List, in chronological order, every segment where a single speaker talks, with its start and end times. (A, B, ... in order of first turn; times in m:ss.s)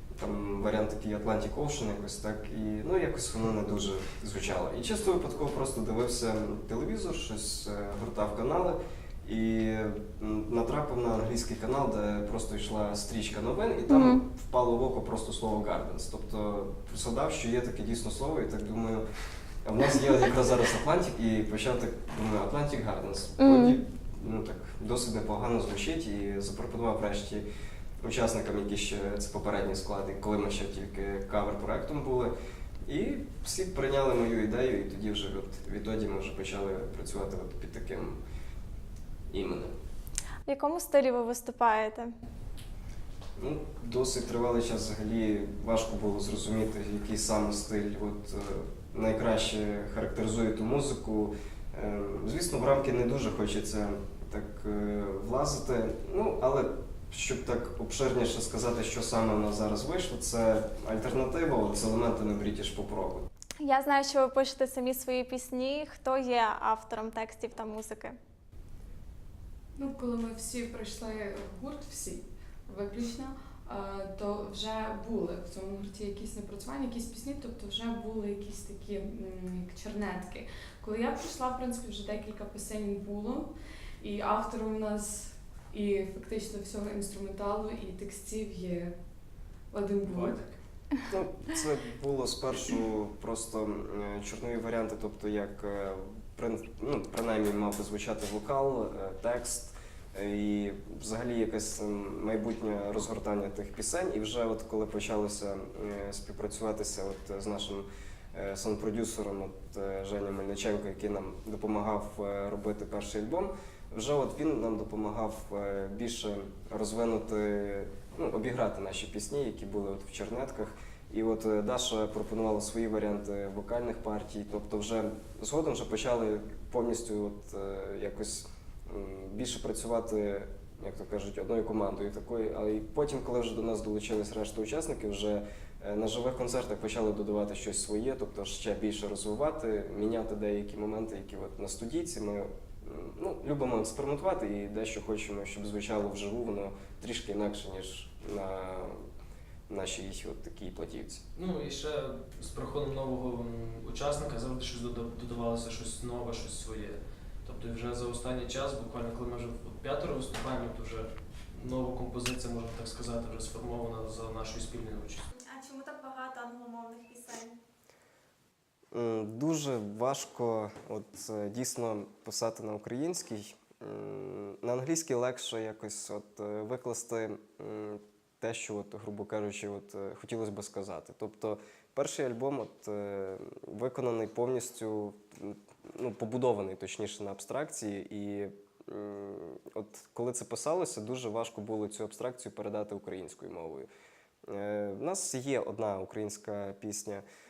0:00.2-0:19.0 A
0:13.9-0:14.2 B
0:19.6-0:27.4 A
0:23.4-0:23.8 B
0:28.0-0:32.3 A
0:32.8-0:38.2 A
0:39.3-0:39.7 A
0:40.4-0:42.1 B
0:43.4-1:03.3 A
1:03.6-1:08.2 B
1:09.8-1:28.9 C
1:29.7-1:30.4 C
1:30.0-1:30.6 D
1:31.1-2:29.0 A
2:29.7-2:31.2 A
2:31.3-2:45.2 D
2:45.3-2:47.6 B
2:48.9-3:13.9 A
3:14.5-3:17.2 A